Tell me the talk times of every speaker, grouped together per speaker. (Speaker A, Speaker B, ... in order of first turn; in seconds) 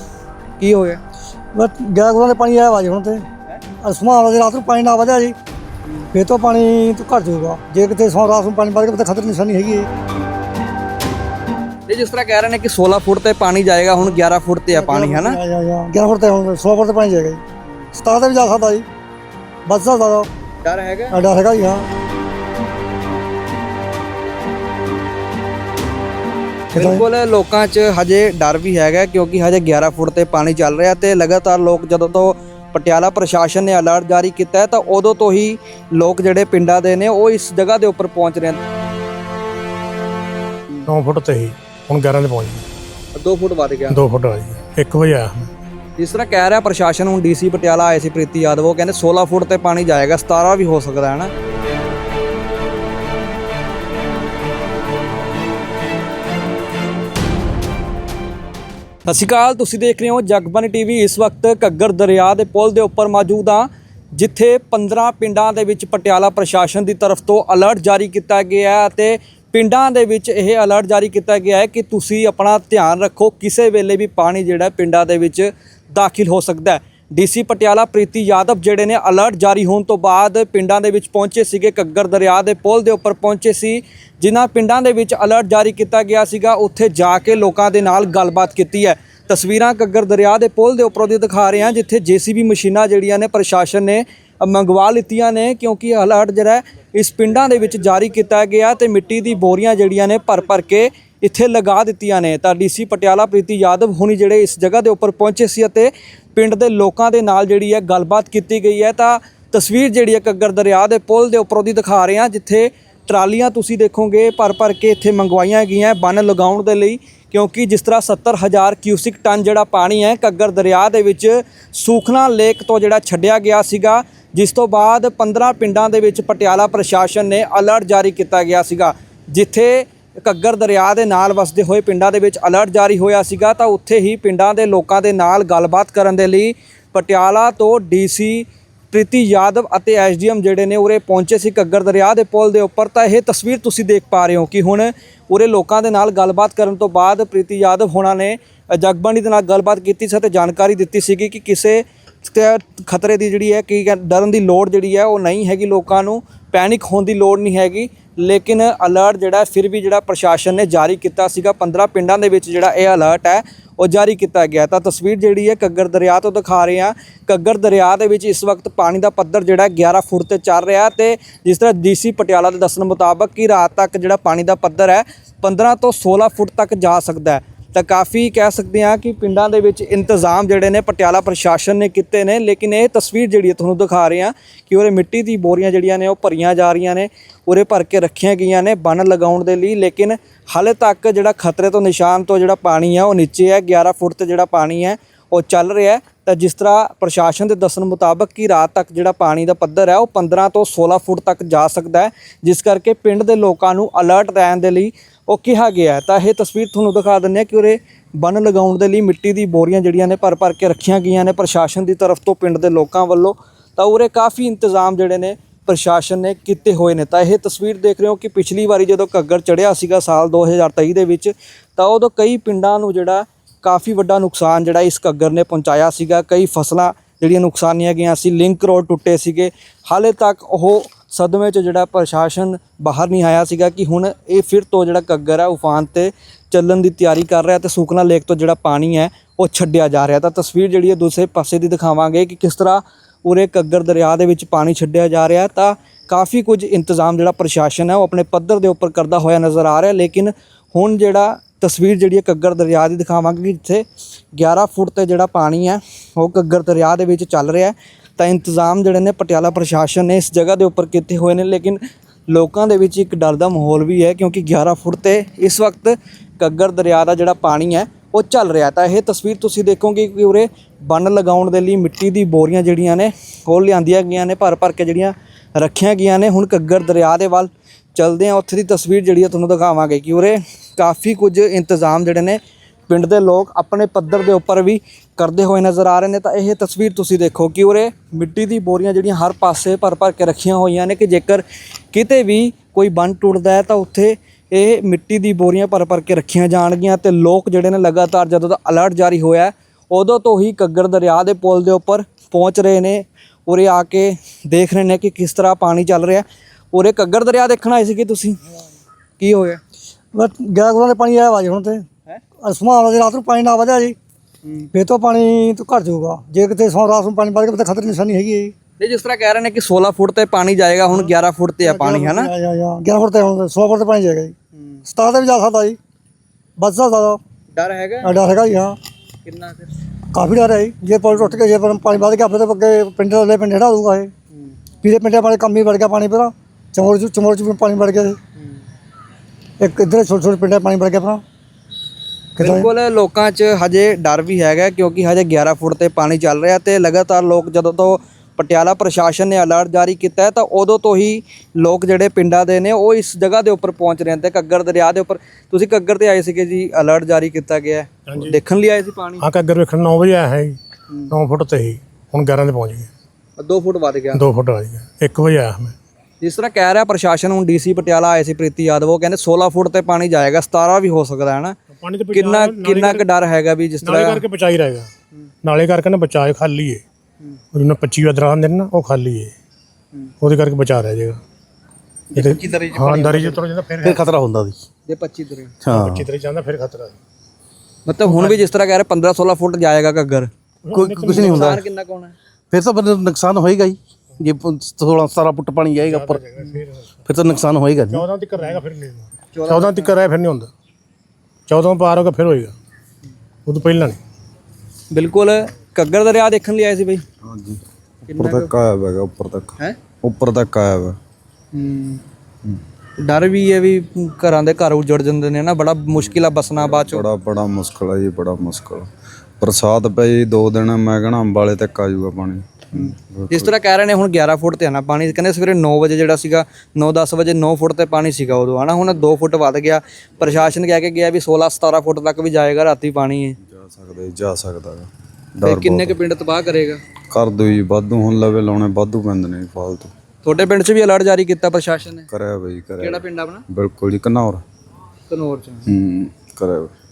Speaker A: 0.6-1.0, 11.9-15.4, 20.6-21.1, 26.7-38.6, 43.1-44.0, 46.0-51.3, 59.0-253.8, 254.3-308.4, 309.2-309.6, 318.8-322.3, 327.5-328.1, 329.2-329.7, 342.4-359.2, 363.4-364.2, 366.2-371.6, 372.1-374.2, 382.1-383.4, 384.9-385.5, 387.9-390.3, 391.1-392.1, 399.3-399.9, 404.9-407.0, 408.1-408.5, 411.5-412.0, 413.0-417.1, 422.7-433.4, 435.4-436.8, 440.2-442.1, 442.8-443.4, 445.1-445.7
Speaker B: 1.5-3.2, 3.8-5.3, 6.1-9.9, 14.7-17.4, 17.9-18.8, 19.7-20.3, 21.1-21.8, 26.7-27.0, 310.1-311.9, 312.4-313.9, 314.7-318.5, 321.6-324.3, 324.9-325.8, 326.6-327.2, 328.0-328.8, 330.1-334.1, 334.8-338.2, 339.6-341.2, 342.4-342.7
Speaker C: 40.9-42.6, 43.9-45.5, 358.1-358.4, 359.2-360.6, 361.1-362.9, 364.1-365.8, 371.8-373.0, 373.8-374.9, 375.4-376.8, 377.5-379.3, 380.2-381.2, 382.1-384.1, 385.7-387.0, 388.1-388.4, 390.6-391.6, 395.8-397.1, 397.9-400.5, 401.5-402.5, 403.4-404.0
Speaker D: 384.1-384.6, 385.6-386.0, 390.7-391.4, 392.5-396.0, 397.1-398.0
Speaker E: 407.2-411.0, 415.9-418.9, 419.4-423.5, 433.4-436.0, 437.1-439.9, 442.1-444.4, 445.6-446.7